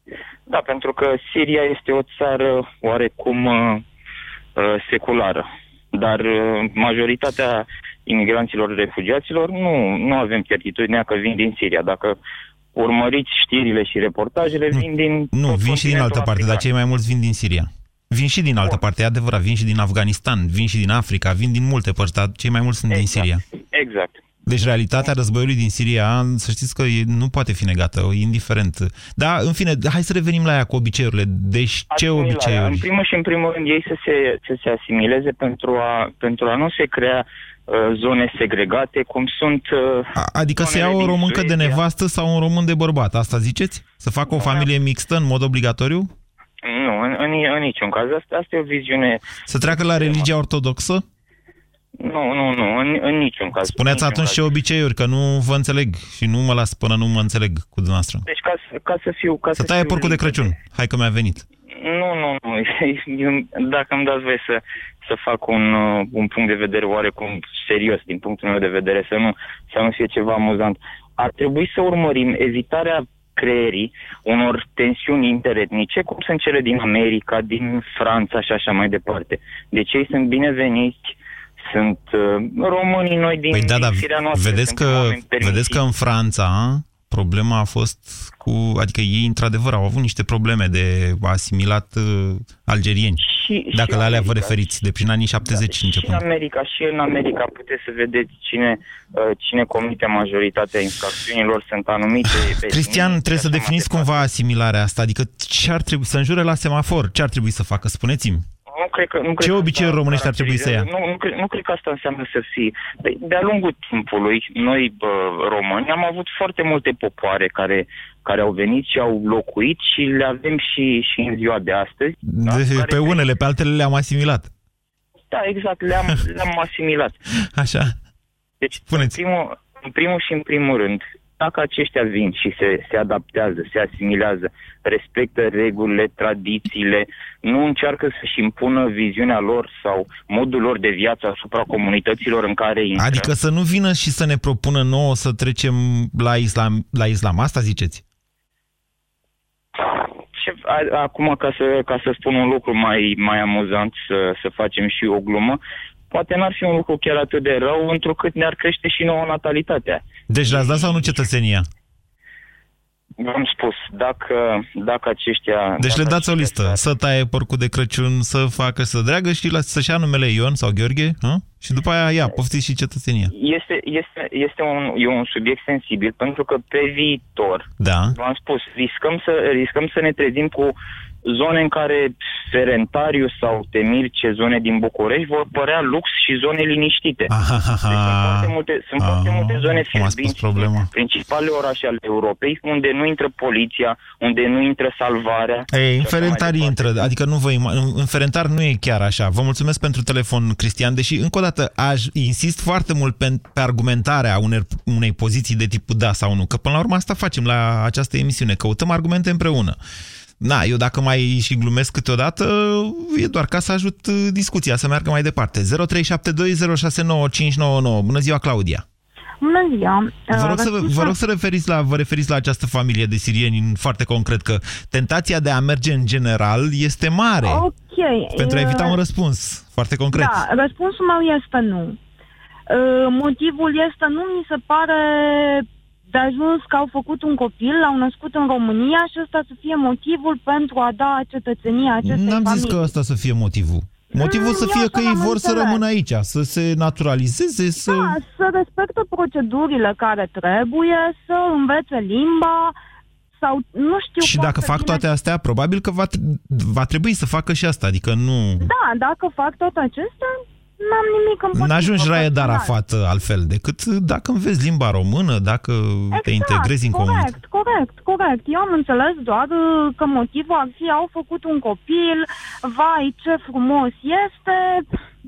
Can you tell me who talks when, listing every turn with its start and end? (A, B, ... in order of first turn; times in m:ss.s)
0:00.5-0:03.8 A
0:04.6-0:12.2 A
0:12.7-0:16.6 A
0:14.7-0:23.4 B
0:22.9-0:24.2 A
0:24.5-0:32.8 B
0:31.9-0:41.8 A
0:40.2-0:46.1 B
0:44.3-0:44.7 A
0:46.6-0:50.3 A
0:49.5-0:51.0 B
0:52.0-0:54.5 A
0:53.6-0:58.2 B
0:58.3-1:00.5 A
0:59.6-1:01.5 B
1:01.8-1:25.8 A
1:23.5-1:36.2 B
1:33.2-1:34.6 A
1:35.5-1:44.2 A
1:42.3-1:48.4 B
1:48.7-2:03.2 A
1:49.4-1:50.9 B
2:02.3-2:04.5 B
2:05.3-2:07.2 A
2:07.4-2:08.0 B
2:08.6-2:23.3 A
2:08.9-2:09.2 B
2:23.0-2:28.0 B
2:29.8-2:35.6 A
2:36.1-2:40.0 A
2:40.3-2:41.7 B
2:40.6-2:40.9 A
2:43.2-2:46.8 A
2:45.8-2:53.3 B
2:53.3-3:07.3 A
2:57.8-2:58.2 B
3:07.3-3:10.9 B
3:07.9-3:17.1 A
3:15.7-3:29.8 B
3:30.4-3:38.8 B
3:39.4-3:41.1 C
3:40.3-3:47.7 B
3:47.4-3:49.0 C
3:48.4-3:50.4 B
3:50.1-3:52.0 C
3:52.7-4:02.8 C
4:02.0-4:08.2 B
4:04.2-4:05.8 C
4:07.8-4:12.7 C
4:13.4-4:15.0 C
4:14.2-4:18.7 B
4:18.6-4:22.7 C
4:21.5-4:27.3 B
4:26.1-4:34.8 C